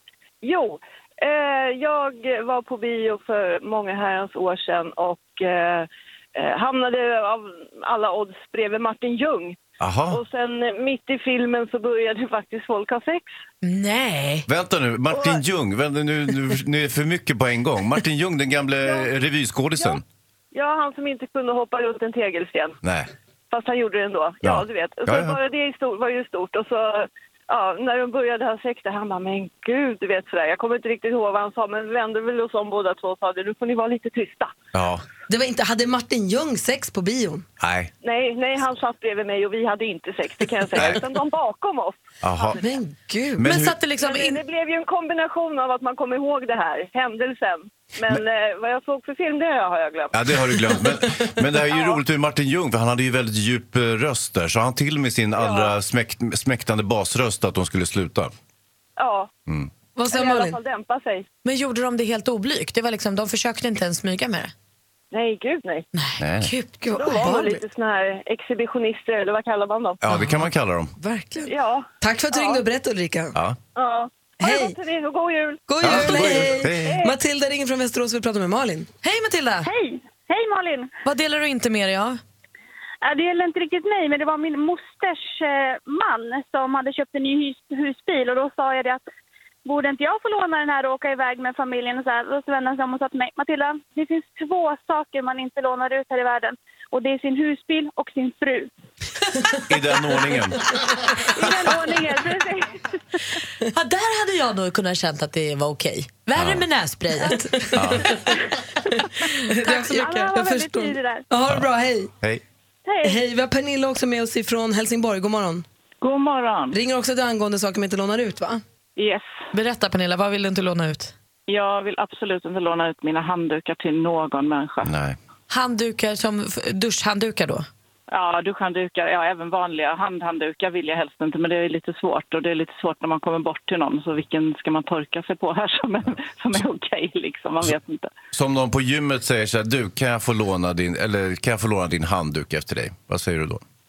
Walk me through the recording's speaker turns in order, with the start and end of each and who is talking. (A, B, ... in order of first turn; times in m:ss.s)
0:00.4-0:09.6 A
0:09.8-0:10.2 B
0:10.1-0:13.3 A
0:13.6-0:14.5 C
0:14.5-0:20.0 B
0:20.5-0:22.8 A
0:22.8-0:23.1 B
0:23.5-0:34.6 A
0:24.4-0:25.4 B
0:34.7-0:35.0 B
0:35.3-0:37.5 D
0:37.6-0:37.9 B
0:38.0-0:42.6 A
0:40.8-0:41.0 B
0:42.2-0:42.6 B
0:42.6-0:43.5 D
0:43.4-0:43.8 B
0:43.4-0:44.4 C
0:44.0-0:50.3 A
0:50.1-0:58.3 B
0:51.7-0:52.0 A
0:55.4-0:55.8 A
0:59.0-0:59.3 A
1:00.0-1:00.6 D
1:00.1-1:01.3 A
1:01.4-1:04.5 C
1:05.1-1:05.9 A
1:05.9-1:07.0 C
1:06.2-1:06.6 B
1:06.8-1:07.6 D
1:07.0-1:10.1 A
1:10.0-1:10.9 B
1:10.2-1:10.4 D
1:11.0-1:13.4 D
1:11.5-1:12.6 A
1:13.8-1:17.1 A
1:14.4-1:14.8 D
1:15.7-1:18.9 D
1:15.8-1:17.0 B
1:19.0-1:19.7 C
1:19.6-1:20.9 E
1:21.0-1:22.2 C
1:23.0-1:29.0 E
1:29.6-1:38.7 E
1:39.7-1:40.7 B
1:41.4-1:42.6 E
1:43.7-1:47.9 C
1:46.4-1:46.7 B
1:47.5-1:48.2 D
1:47.8-1:48.2 B
1:49.2-1:52.1 D
1:49.7-1:51.2 E
1:53.0-1:55.6 D
1:56.0-1:56.8 F
1:56.7-1:58.6 D
1:59.0-1:59.3 F
1:59.5-2:01.1 C
2:01.5-2:04.9 F
2:04.8-2:05.2 B
2:05.5-2:07.7 C
2:08.1-2:18.1 F
2:18.3-2:23.6 B